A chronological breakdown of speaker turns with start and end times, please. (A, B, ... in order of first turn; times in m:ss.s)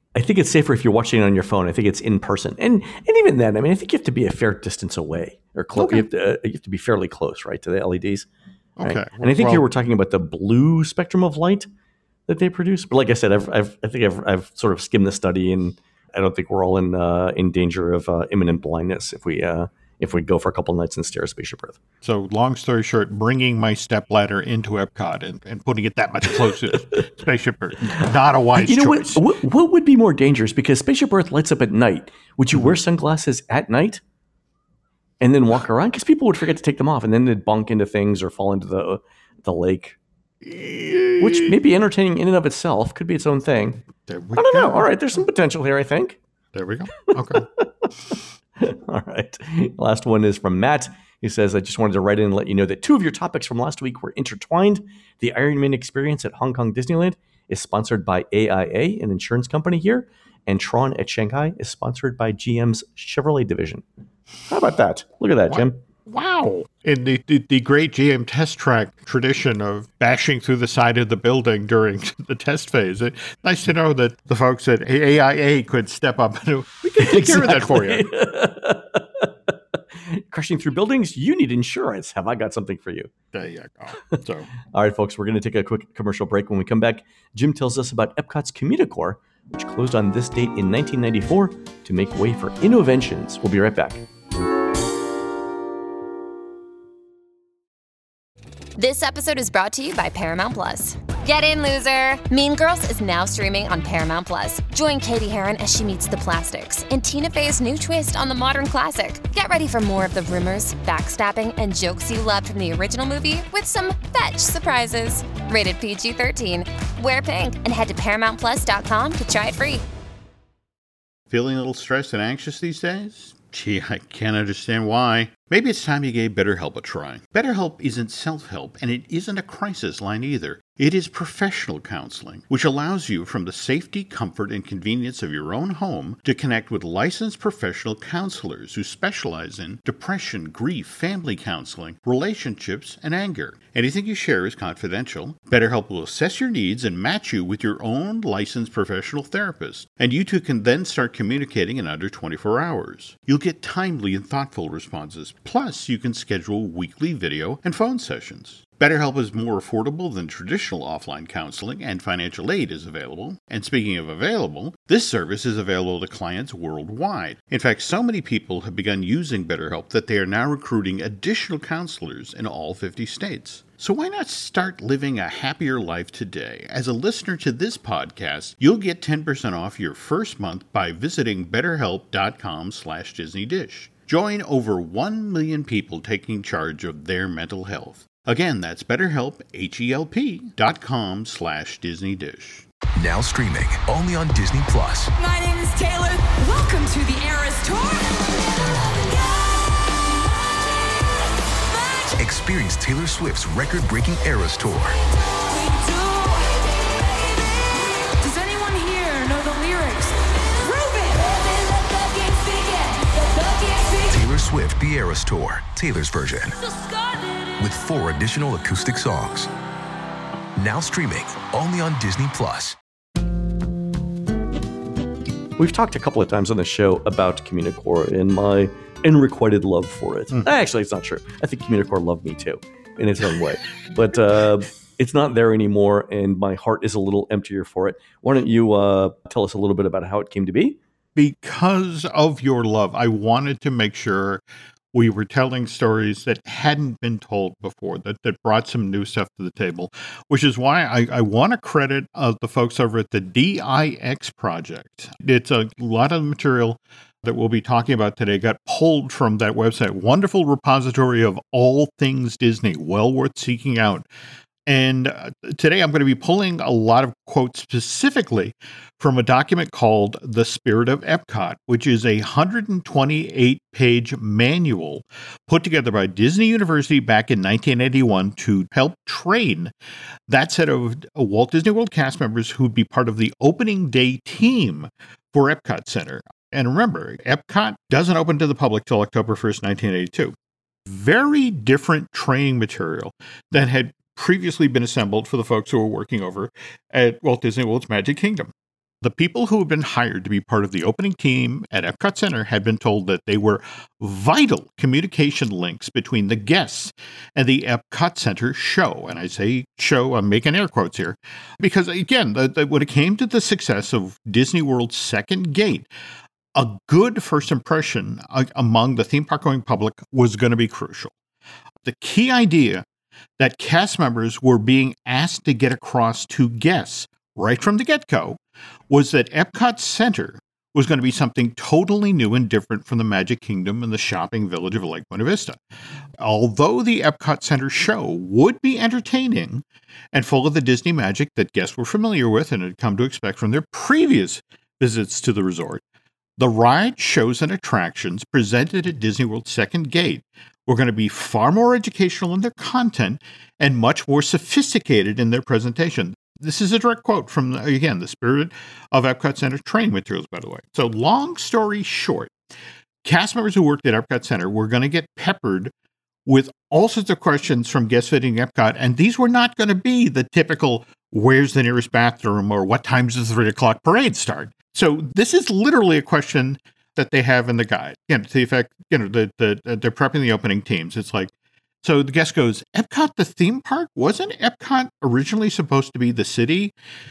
0:00.1-0:08.3 A
0:05.8-0:06.1 B
0:08.8-0:09.6 B
0:08.8-0:11.7 A
0:12.3-0:21.8 A
0:22.0-0:29.2 B
0:28.6-0:34.0 A
0:35.2-0:40.0 A
0:40.4-0:41.6 B
0:41.2-0:46.2 A
0:44.1-0:44.9 B
0:46.5-0:47.5 B
0:47.1-1:03.8 A
1:04.5-1:05.8 A
1:05.5-1:18.1 B
1:17.0-1:23.1 A
1:23.3-1:24.5 B
1:24.7-1:34.0 A
1:38.8-1:59.8 C
2:01.3-3:12.6 B
3:13.0-3:15.1 D
3:15.2-3:22.1 E
3:22.2-3:25.0 D
3:25.0-3:34.2 E
3:34.1-3:36.6 D
3:36.6-3:37.6 E
3:37.6-3:39.5 D
3:40.6-3:42.8 D
3:45.6-4:00.8 A
4:01.2-4:04.4 B
4:04.9-4:24.0 B
4:24.7-4:39.7 B
4:40.3-5:15.9 B
5:16.5-5:21.1 B
5:21.8-5:22.8 B
5:23.4-5:35.6 B
5:36.2-5:45.8 B
5:46.4-6:02.3 B
6:03.0-6:05.7 B
6:06.2-6:21.3 B
6:21.8-6:26.7 B